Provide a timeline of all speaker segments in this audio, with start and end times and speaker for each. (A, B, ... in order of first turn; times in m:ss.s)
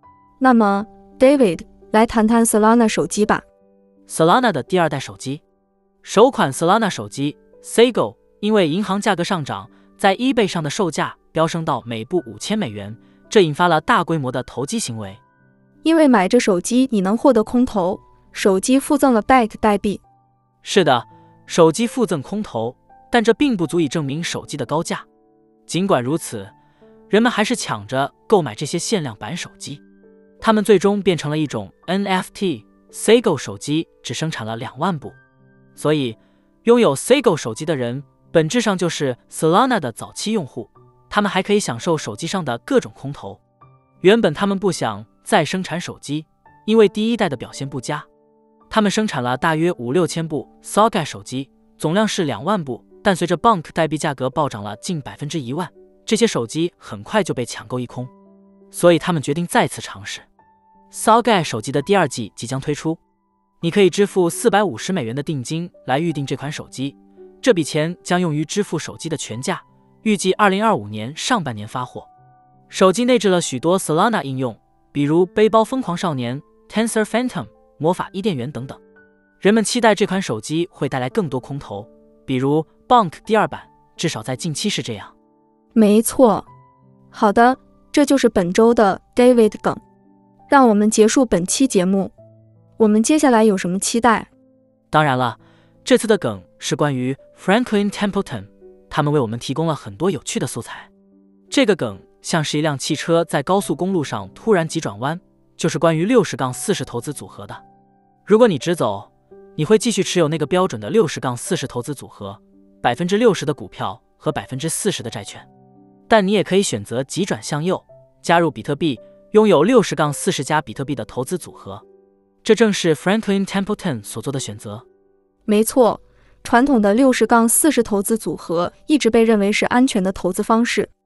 0:00.4-0:03.4 A
0:04.1-0:05.4 B
0:06.0-0:15.2 B
0:15.8-0:20.0 A
0:20.6-0:25.0 B
0:25.7-0:26.5 B
0:27.1-0:29.8 B
0:30.4-0:35.2 B
0:35.8-0:43.4 B
0:44.0-0:48.1 B
0:48.7-0:58.1 B
0:58.7-1:00.2 B
1:00.9-1:03.0 B
1:03.6-1:12.1 B
1:12.7-1:18.8 B
1:19.4-1:25.1 B
1:25.8-1:26.5 A
1:27.1-1:29.8 A
1:30.5-1:32.1 A
1:32.8-1:34.3 A
1:34.9-1:40.9 B
1:41.5-1:47.6 B
1:48.3-1:55.5 B
1:56.1-2:01.8 B
2:02.4-2:04.8 B
2:05.5-2:10.9 A